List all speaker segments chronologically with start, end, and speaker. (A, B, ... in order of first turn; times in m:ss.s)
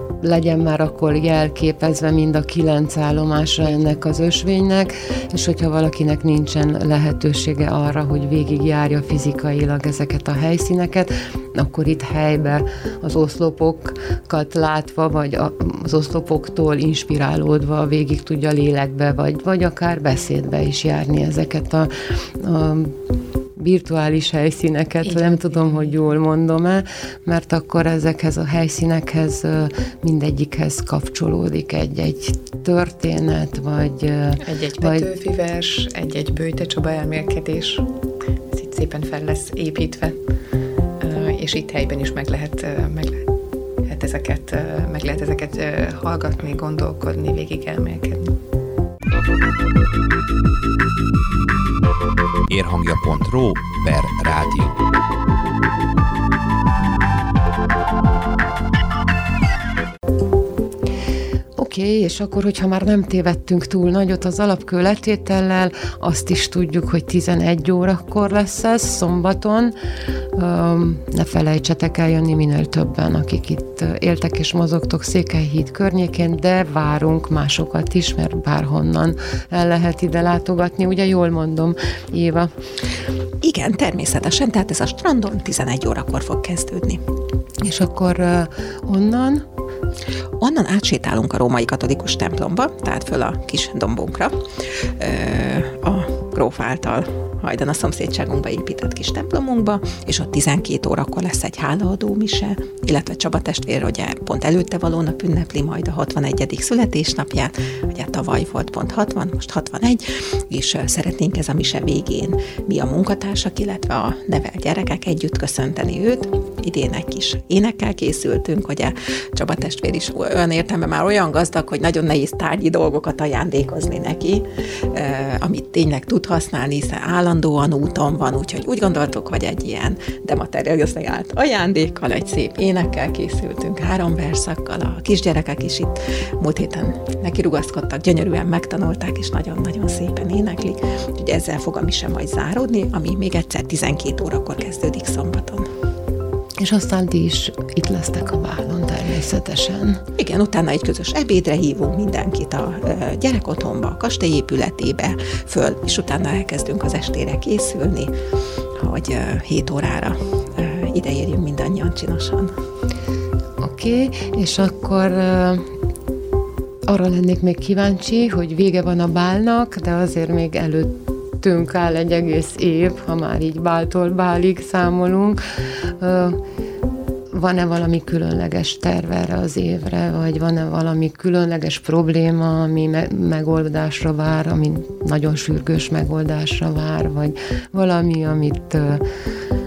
0:00.2-0:22.9 A
0:23.6-0:35.1 A
0:25.0-0:25.9 B
0:34.4-0:37.9 B
0:38.5-0:40.2 B
0:41.0-0:43.3 B
0:43.8-0:48.3 B
0:52.5-0:54.8 C
1:01.6-1:09.7 A
1:10.3-1:22.5 A
1:23.4-1:27.0 D
1:27.6-1:29.4 A
1:30.4-1:34.4 D
1:35.0-2:25.7 D
2:26.6-2:30.0 A
2:30.2-2:38.1 D
2:38.8-2:42.5 D
2:43.6-2:45.6 A
2:46.9-2:55.4 A
2:56.0-2:56.4 A
2:57.3-3:09.0 A